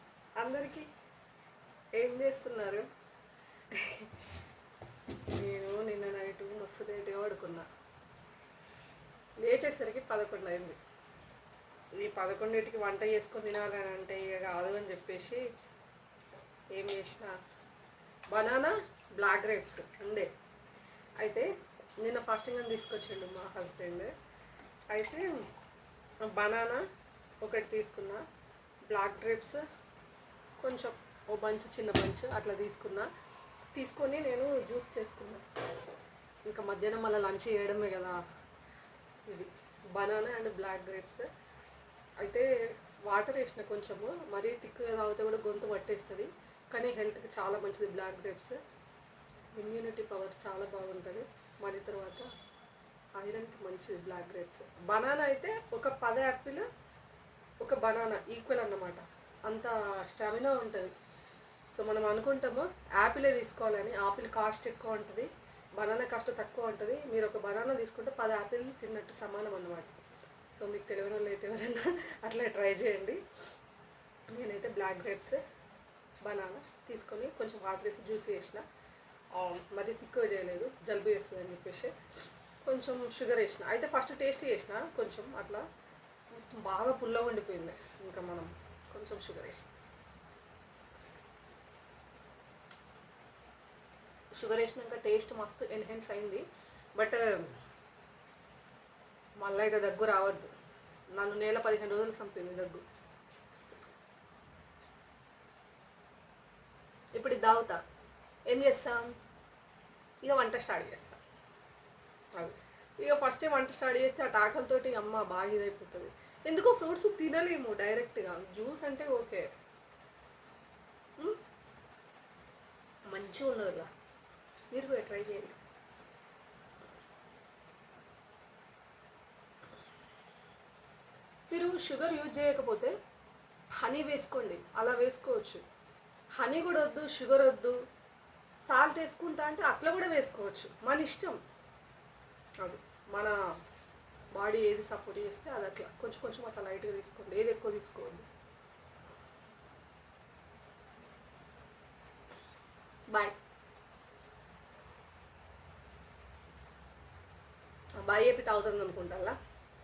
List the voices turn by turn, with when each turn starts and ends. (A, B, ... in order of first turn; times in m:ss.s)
0:00.4-0:00.9 A
0:02.0-0:02.8 A
0:03.7-0:04.1 A
0:05.3-0:07.7 A
0:09.4-0:10.8 A
0:12.0-0:15.4 A
0:16.7-0:17.3 A
0:18.3-0:20.3 A
0:21.2-0:21.5 A
0:22.0-0:24.1 A
0:24.9-0:25.4 A
0:26.3-0:26.8 A
0:27.4-0:28.2 A
0:28.9-0:29.6 A
0:30.6-0:33.1 A
0:33.7-0:35.4 A
0:36.5-0:38.2 A
0:39.3-0:41.3 A
0:42.2-0:42.5 A
0:43.0-0:48.6 A
0:49.6-0:52.3 A
0:53.2-0:56.6 A
0:57.6-1:00.9 A
1:01.7-1:10.0 A
1:10.5-1:13.2 A
1:14.3-1:15.4 A
1:16.2-1:18.6 A
1:19.3-1:21.9 A
1:22.6-1:25.6 A
1:26.3-1:29.7 A
1:34.4-1:36.4 A
1:37.0-1:37.5 A
1:39.4-1:40.5 A
1:41.1-1:42.8 A
1:47.1-1:47.8 A
1:48.5-1:49.1 A
1:50.2-1:51.2 A
1:52.4-1:59.4 A
2:03.1-2:03.9 A
2:04.7-2:05.6 A
2:11.5-2:12.9 A
2:13.8-2:15.6 A
2:16.4-2:17.8 A
2:18.6-2:21.4 A
2:22.6-2:23.4 A
2:24.3-2:28.2 A
2:38.0-2:39.4 A